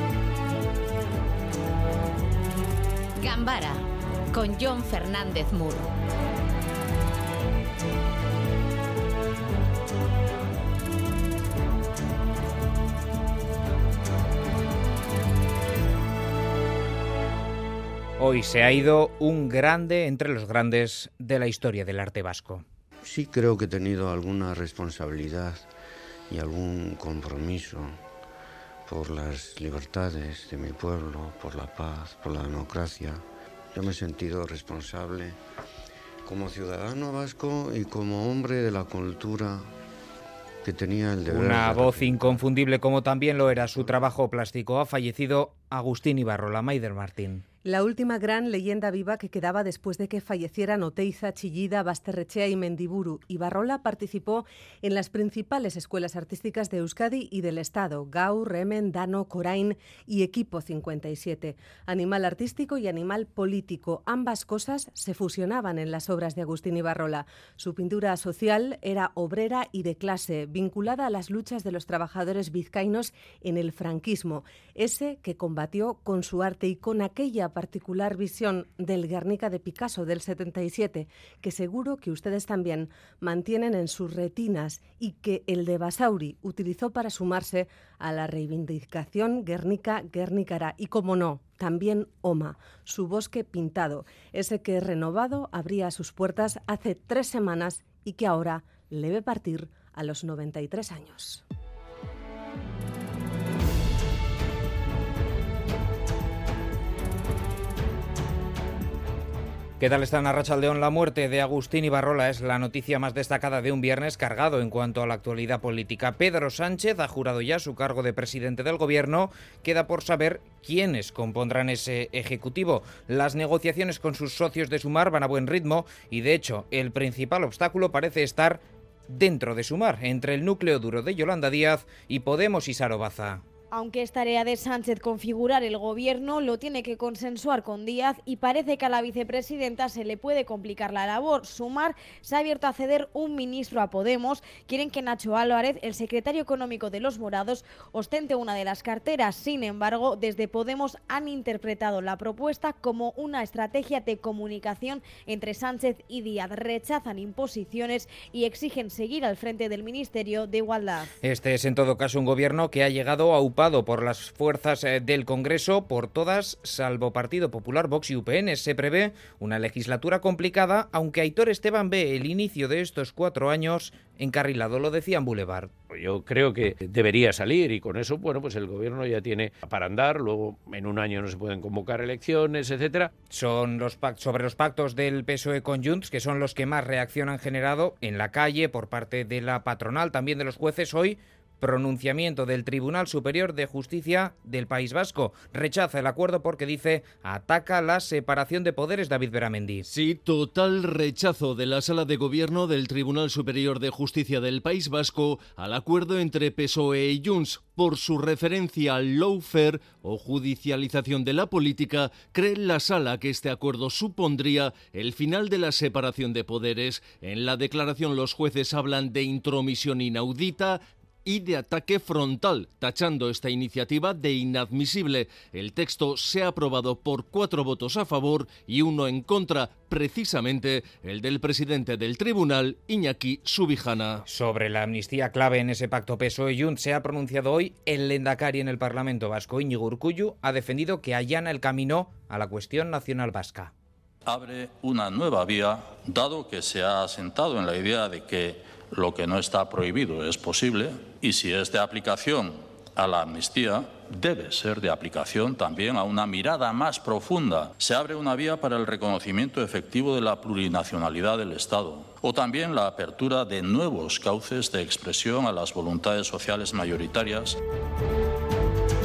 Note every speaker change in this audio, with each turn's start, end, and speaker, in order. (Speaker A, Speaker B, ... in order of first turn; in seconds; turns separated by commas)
Speaker A: 3.2-3.8, Speaker A: 4.3-5.9, Speaker B: 18.2-22.6, Speaker C: 23.0-25.6, Speaker C: 26.3-27.9, Speaker C: 28.9-33.2, Speaker C: 33.7-35.4, Speaker C: 36.2-39.6, Speaker C: 40.6-42.4, Speaker B: 41.3-47.4, Speaker D: 47.6-101.4, Speaker B: 109.8-133.4, Speaker E: 133.7-161.1, Speaker B: 161.2-175.7, Speaker F: 176.5-176.8, Speaker F: 177.3-179.7, Speaker F: 181.7-182.9, Speaker B: 183.3-199.9, Speaker G: 199.8-234.2, Speaker B: 234.2-243.7, Speaker H: 244.3-267.6